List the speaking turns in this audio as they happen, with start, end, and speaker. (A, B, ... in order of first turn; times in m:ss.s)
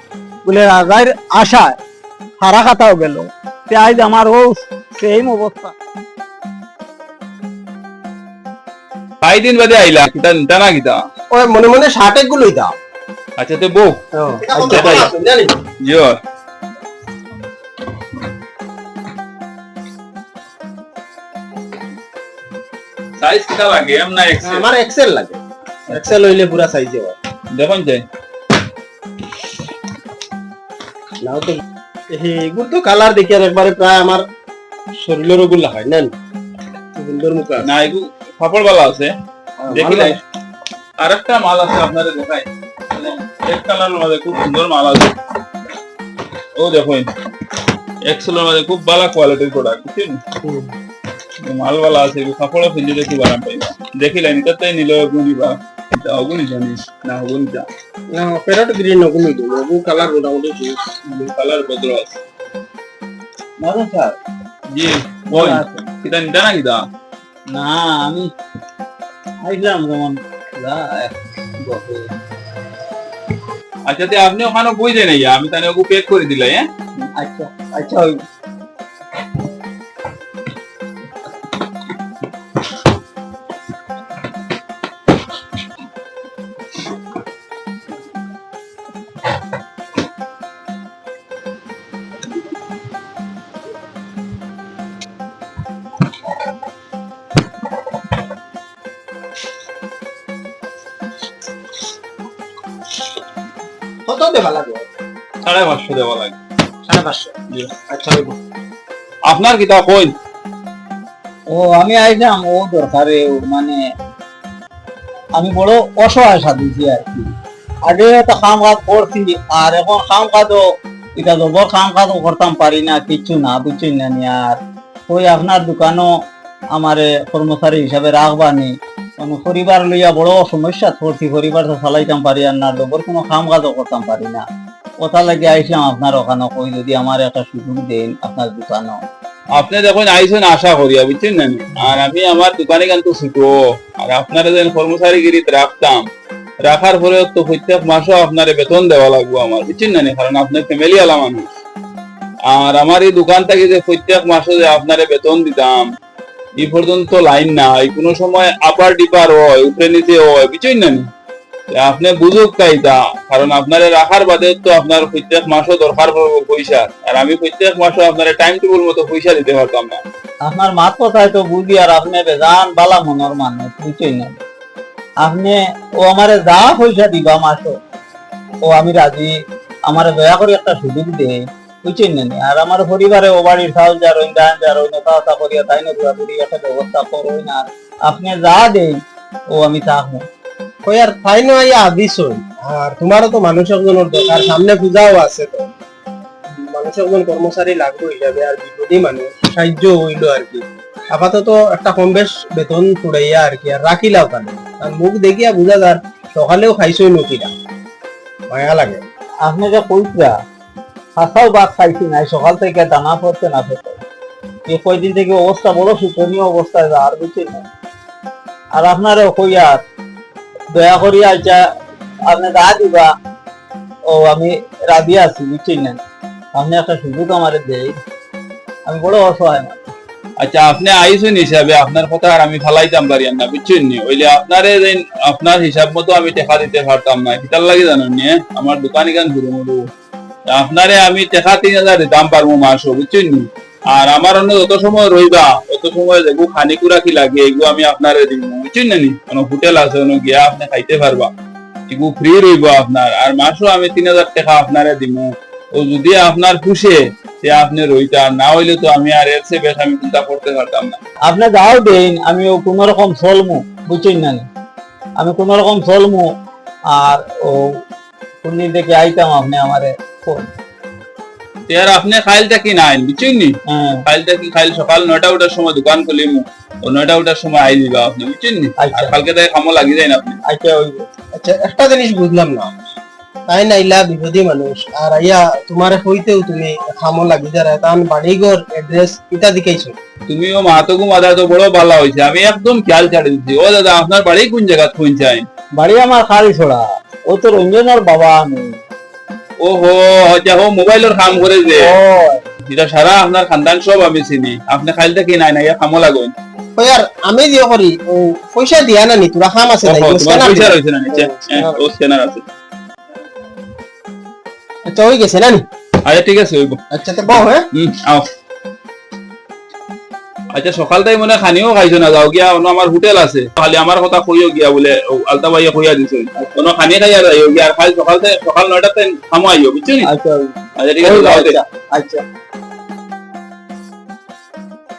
0:00.4-0:01.8 A
0:02.4-0:05.7 A
0:09.2-0:11.0 B
0:11.3-0:12.8 C
0:13.4-0:14.0 B
0:14.2-0:15.5 C
0:14.6-0:15.1 B
0:15.8-0:16.2 B
0:23.2-0:24.7 B
0:24.4-0:27.2 C
0:27.5-0:28.0 B
0:31.2-0:34.2 C
0:35.0-0:36.1 C
0:37.0-0:37.7 C
0:37.6-0:39.1 B
0:39.6-0:40.2 C
0:39.7-0:40.2 B
0:41.0-0:45.1 B
0:46.6-0:47.1 B
0:48.0-0:50.2 B
0:50.4-0:50.7 C
0:51.4-0:57.7 B
0:58.1-1:00.8 C
1:01.0-1:02.2 B
1:03.6-1:04.2 A
1:04.7-1:06.8 B
1:05.3-1:05.8 A
1:07.5-1:08.3 A
1:09.4-1:12.1 A
1:13.9-1:16.6 B
1:17.1-1:18.2 A
1:44.0-1:44.8 C
1:45.4-1:46.4 B
1:46.9-1:47.2 C
1:47.9-1:48.4 C
1:49.2-1:50.1 B
1:51.5-1:53.8 A
1:55.4-1:57.3 A
1:57.8-2:00.6 A
2:01.2-2:06.1 A
2:06.7-2:14.4 A
2:15.0-2:19.0 A
2:19.5-2:26.1 B
2:26.6-2:31.5 B
2:32.4-2:35.9 B
2:36.6-2:41.1 B
2:41.7-2:50.0 B
2:50.4-2:54.4 A
2:55.2-2:57.8 A
2:58.6-2:59.3 A
2:59.9-3:09.0 A
3:09.5-3:10.2 A
3:10.8-3:15.7 C
3:16.5-3:27.5 C
3:28.5-3:29.0 C
3:29.4-3:30.3 A
3:31.2-3:34.0 A
3:34.7-3:37.6 A
3:38.8-3:39.8 A
3:40.7-3:41.6 A
3:42.3-3:43.1 A
3:44.1-3:46.0 A
3:46.5-3:48.0 A
3:48.8-3:49.8 A
3:50.4-3:59.8 B
4:00.5-4:11.3 B
4:11.9-4:21.0 B
4:21.3-4:24.4 A
4:25.2-4:26.3 A
4:26.9-4:27.8 A
4:28.4-4:30.5 A
4:31.7-4:40.4 B
4:33.7-4:34.0 A
4:38.8-4:39.1 A
4:40.5-4:41.1 A
4:41.3-4:42.7 C
4:43.5-4:50.0 C
4:50.3-4:55.5 B
4:55.8-4:58.8 A
4:59.6-5:01.9 B
5:01.7-5:02.4 A
5:02.6-5:06.3 B
5:06.8-5:11.8 C
5:09.8-5:12.4 B
5:14.8-5:15.6 C
5:16.0-5:16.8 B
5:16.9-5:17.7 C
5:17.7-5:18.3 B
5:20.5-5:30.1 B
5:30.0-5:32.2 A
5:30.8-5:31.6 B